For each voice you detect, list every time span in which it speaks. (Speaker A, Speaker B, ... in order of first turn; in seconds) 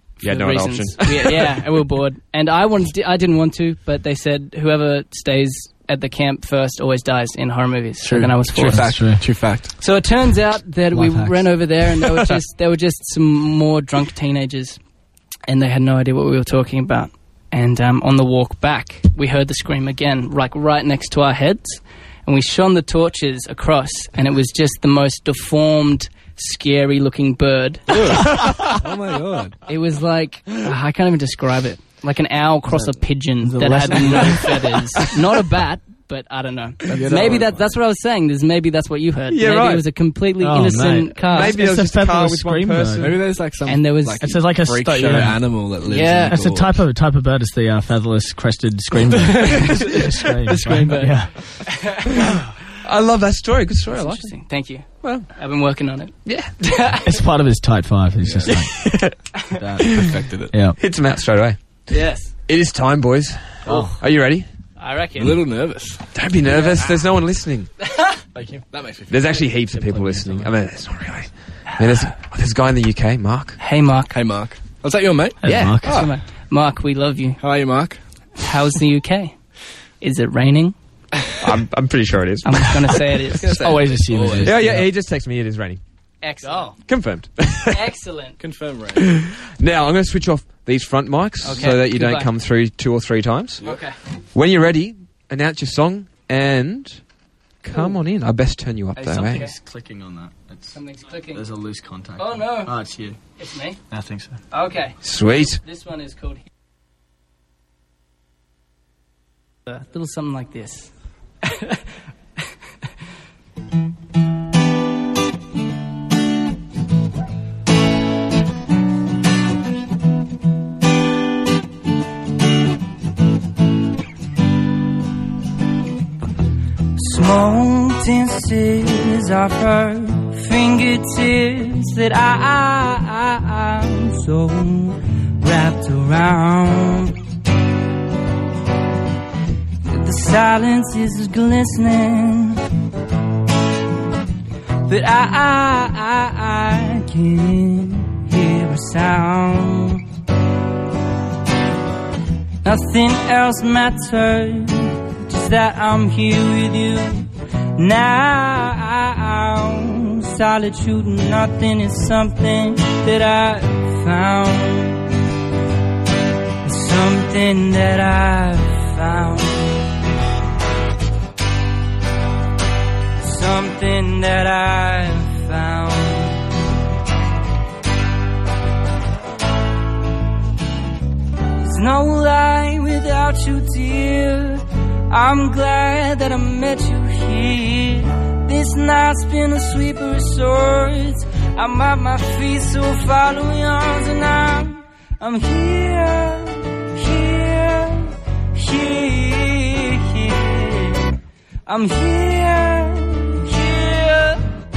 Speaker A: 0.2-9.1, 9.8-14.8, 15.5-28.3, 29.6-41.6, 43.6-44.3, 45.9-46.4, 49.4-52.2, 53.9-57.1, 61.9-62.3, 64.8-65.4, 66.5-66.8, 71.8-72.1, 73.6-74.1, 75.8-77.4, 78.4-79.4, 80.0-80.8, 82.4-83.7, 86.2-86.8, 87.7-88.4, 91.4-92.3, 93.6-94.0, 99.0-99.5, 100.7-101.4, 102.2-102.8, 103.4-103.8, 104.5-106.4, 109.7-110.9, 111.4-111.8, 127.0-137.2, 139.9-142.6, 144.8-150.0, 152.6-165.1, 166.6-169.8, 173.2-176.5, 181.6-201.1, 201.7-204.4
Speaker B: 0.2-1.5, 36.9-37.5, 39.3-39.9, 41.3-43.2, 52.2-54.3, 55.0-55.3, 56.2-56.5, 58.5-59.2, 59.8-60.2, 60.8-61.6, 62.5-64.5, 66.1-67.7, 69.1-73.6, 75.4-76.1, 81.4-83.0, 84.4-85.8, 86.9-87.8, 89.0-93.7, 94.3-97.0, 97.6-99.5, 105.0-105.6
Speaker C: 8.0-9.3, 10.9-11.5, 33.4-34.7, 40.4-43.1, 44.2-45.7, 46.3-51.7, 57.0-59.0, 59.5-60.8, 63.6-64.0, 68.3-68.6, 69.7-70.5, 75.4-76.0, 83.5-84.9, 99.2-100.8, 101.3-103.2, 103.9-104.4
Speaker D: 8.6-9.8, 27.9-29.6, 36.9-37.6, 43.0-46.8, 58.2-58.5, 59.8-60.5, 65.2-66.1, 68.7-69.5, 74.1-75.4, 77.4-78.0, 83.3-84.7, 88.4-89.2